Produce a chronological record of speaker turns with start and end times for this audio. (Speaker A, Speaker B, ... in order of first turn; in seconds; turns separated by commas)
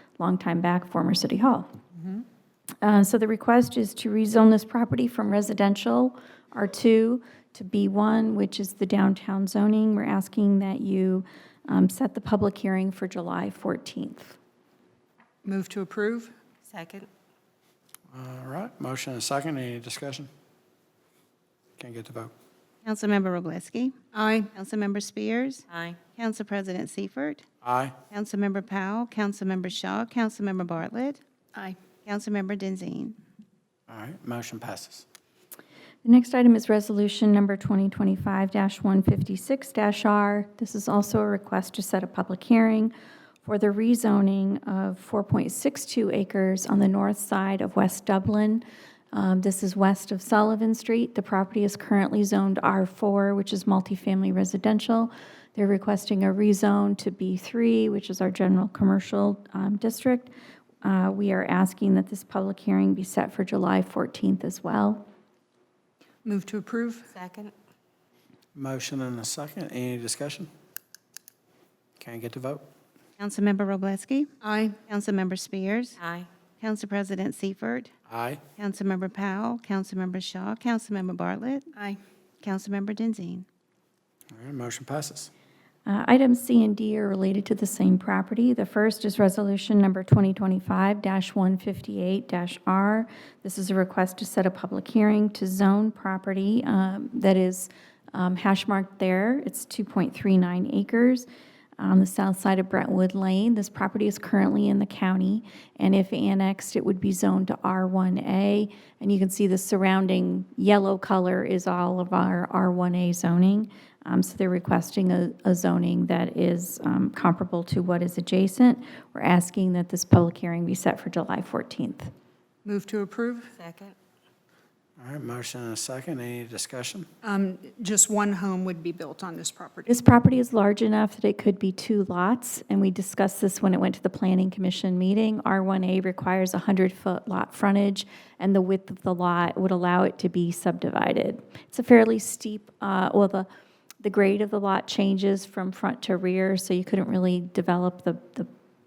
Speaker A: 0.2-1.7, Speaker A: 2.8-14.4, Speaker B: 15.4-16.3, Speaker C: 16.7-17.1, Speaker D: 18.1-20.3, Speaker D: 21.8-22.3, Speaker E: 22.8-24.0, Speaker B: 24.1-24.5, Speaker E: 24.5-27.4, Speaker C: 25.7-26.0, Speaker D: 27.6-28.0, Speaker E: 28.1-31.2, Speaker E: 32.0-33.2, Speaker D: 33.9-35.0, Speaker A: 36.0-60.3, Speaker A: 60.8-65.0, Speaker B: 66.2-67.1, Speaker C: 67.1-67.5, Speaker D: 68.5-70.5, Speaker D: 72.0-72.7, Speaker E: 73.2-74.3, Speaker B: 74.4-74.8, Speaker E: 74.9-76.0, Speaker C: 76.0-76.3, Speaker E: 76.6-77.9, Speaker D: 78.1-78.4, Speaker E: 78.6-81.7, Speaker E: 82.4-83.5, Speaker D: 84.3-85.3, Speaker A: 85.9-101.3, Speaker A: 101.8-122.1, Speaker B: 122.7-123.5, Speaker C: 123.5-123.9, Speaker D: 125.0-127.1, Speaker B: 127.2-130.0, Speaker A: 129.9-143.5, Speaker A: 144.0-148.5